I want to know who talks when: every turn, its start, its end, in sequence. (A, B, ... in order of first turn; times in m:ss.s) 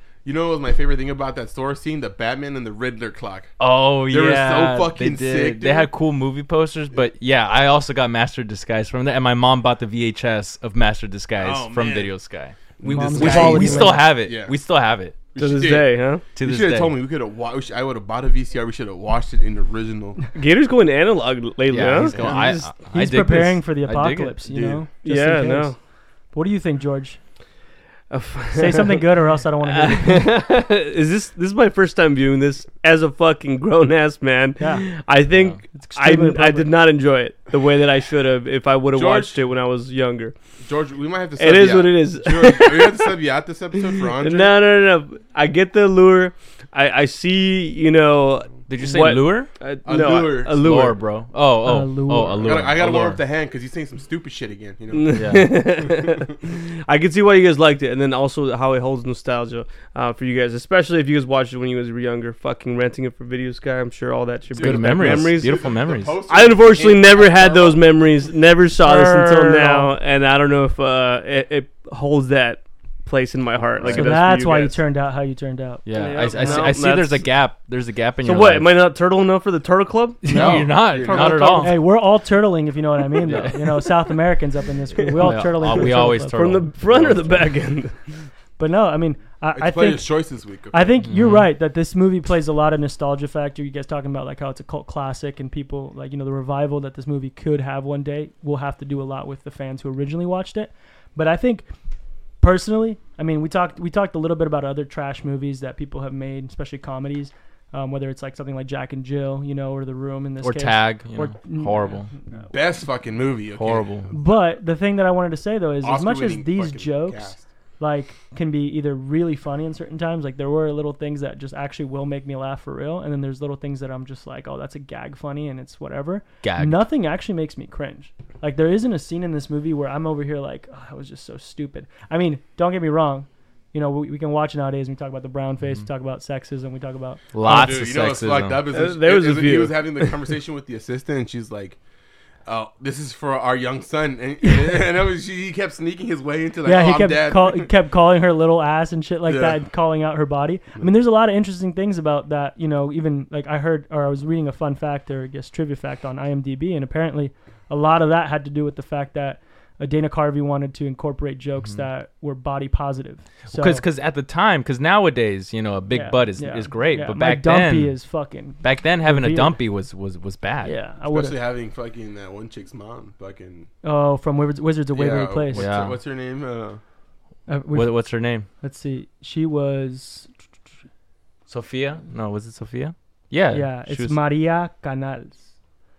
0:00.2-0:03.5 A
0:03.6-0:15.2 B
0:04.1-0:05.9 A
0:11.4-0:12.1 A
0:12.8-0:14.5 A
0:12.8-0:14.0 C
0:15.3-0:20.2 A
0:15.4-0:16.2 D
0:16.4-0:16.9 B
0:20.3-0:22.7 D
0:21.7-0:24.4 B
0:22.1-0:22.5 A
0:22.7-0:27.2 C
0:24.4-0:24.8 A
0:25.0-0:25.8 D
0:28.1-0:29.1 D
0:28.5-0:30.3 C
0:29.6-0:40.3 D
0:34.6-0:34.9 C
0:35.6-0:36.7 C
0:38.9-0:39.3 A
0:40.6-0:44.5 A
0:41.4-0:43.1 D
0:44.0-0:51.0 D
0:48.7-0:49.5 B
0:49.8-0:50.8 A
0:50.5-0:53.2 B
0:51.6-0:52.5 C
0:52.4-0:56.1 A
0:54.9-1:05.7 D
0:55.1-0:55.6 B
1:04.5-1:07.8 A
1:04.6-1:06.2 B
1:06.3-1:14.8 D
1:08.8-1:09.8 B
1:08.9-1:09.9 C
1:13.9-1:16.7 C
1:15.8-1:18.7 B
1:15.9-1:17.3 D
1:18.2-1:21.8 D
1:20.2-1:21.8 B
1:20.3-1:21.6 A
1:21.5-1:26.4 C
1:23.2-1:23.9 B
1:25.2-1:27.5 B
1:25.8-1:28.0 D
1:28.6-1:30.2 C
1:29.5-1:31.0 A
1:30.7-1:41.6 C
1:31.0-1:31.5 B
1:42.4-1:52.5 C
1:50.4-1:52.1 B
1:52.5-1:54.1 A
1:53.5-1:54.1 B
1:54.1-2:17.2 C
1:55.8-1:57.4 A
2:06.4-2:06.8 B
2:17.3-2:18.6 B
2:17.4-2:21.8 A
2:18.7-2:20.1 D
2:22.4-2:27.7 A
2:24.4-2:24.8 C
2:26.6-2:43.8 C
2:29.2-2:29.6 A
2:43.5-2:48.0 B
2:45.9-2:49.6 C
2:48.6-2:50.7 B
2:50.6-2:51.4 C
2:51.1-2:53.7 A
2:53.8-2:55.7 C
2:54.9-2:56.8 A
2:55.5-2:56.0 B
2:57.5-3:00.3 C
2:57.7-2:58.5 B
3:01.5-3:04.2 B
3:03.5-3:05.5 C